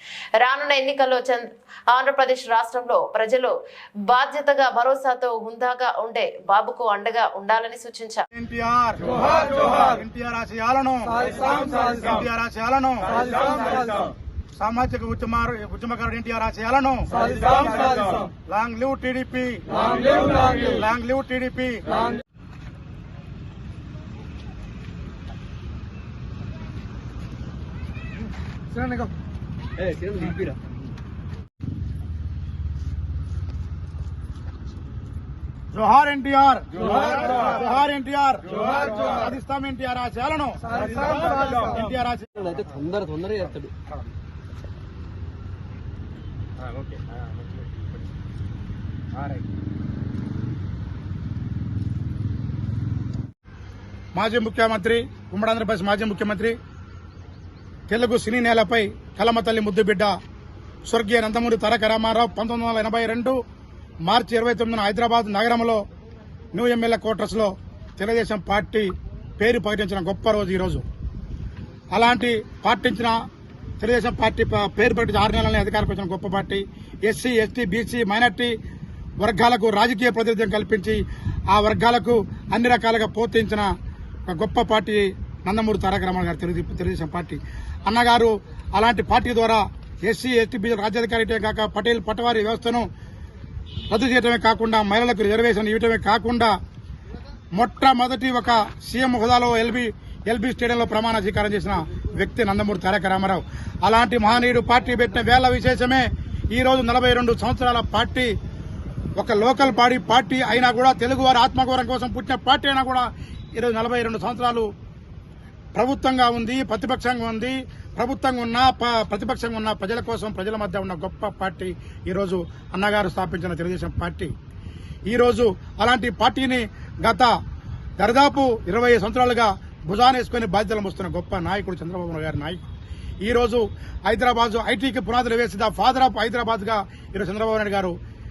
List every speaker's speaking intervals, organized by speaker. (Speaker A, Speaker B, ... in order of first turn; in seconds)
Speaker A: 0.4-3.5, 4.1-8.2
Speaker B: 8.3-14.0, 14.6-22.1, 35.7-42.5, 54.1-56.5, 57.9-60.1, 60.9-63.4, 64.0-65.8, 66.5-70.8, 71.9-73.2, 73.8-78.5, 79.2-83.7, 84.3-92.9, 93.9-96.5, 97.5-108.3, 109.2-114.7, 115.7-124.3, 125.1-127.3, 128.0-132.7, 133.2-137.9
Speaker C: 29.8-30.6, 42.4-43.7